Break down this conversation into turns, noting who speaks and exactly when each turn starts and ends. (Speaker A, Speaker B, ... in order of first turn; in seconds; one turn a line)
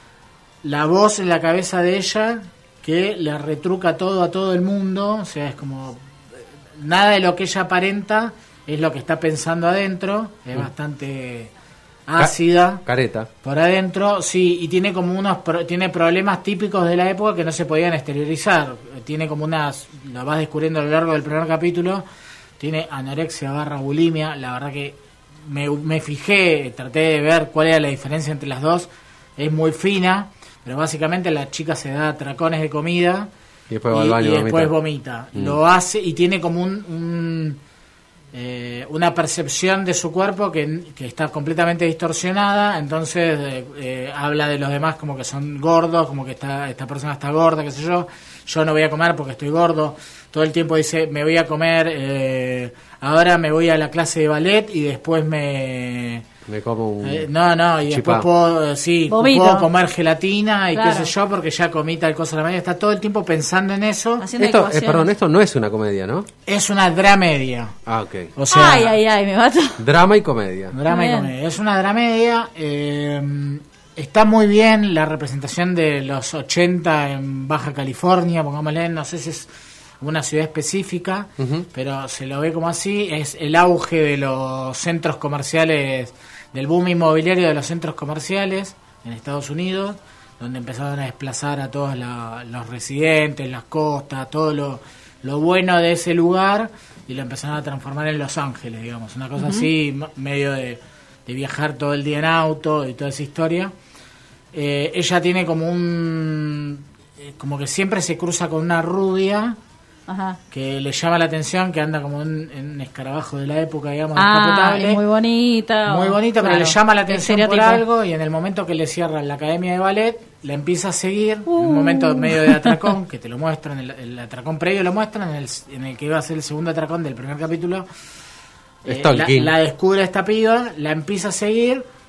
Speaker A: 0.6-6.0
Speaker A: 6.8-11.5
Speaker A: 12.1-12.8
Speaker B: 12.2-13.3
Speaker A: 13.4-22.0
Speaker A: 22.6-33.3
Speaker B: 33.7-34.7
Speaker A: 33.9-37.6
Speaker A: 38.3-56.2
Speaker B: 56.5-57.3
Speaker A: 57.0-64.3
Speaker B: 57.9-58.3
Speaker C: 59.1-59.7
Speaker C: 60.7-61.1
Speaker C: 64.2-65.1
Speaker B: 64.4-66.3
Speaker A: 66.4-67.8
Speaker B: 67.9-68.3
Speaker A: 68.3-69.0
Speaker C: 68.5-69.8
Speaker B: 69.8-70.7
Speaker A: 70.7-79.5
Speaker C: 70.9-71.3
Speaker A: 80.0-103.7
Speaker B: 81.4-81.7
Speaker C: 99.4-99.7
Speaker A: 104.5-109.6
Speaker C: 110.1-110.4
Speaker A: 110.5-115.0
Speaker C: 114.2-117.8
Speaker A: 115.9-127.8
Speaker C: 121.5-122.9
Speaker A: 128.8-131.8
Speaker B: 128.8-129.5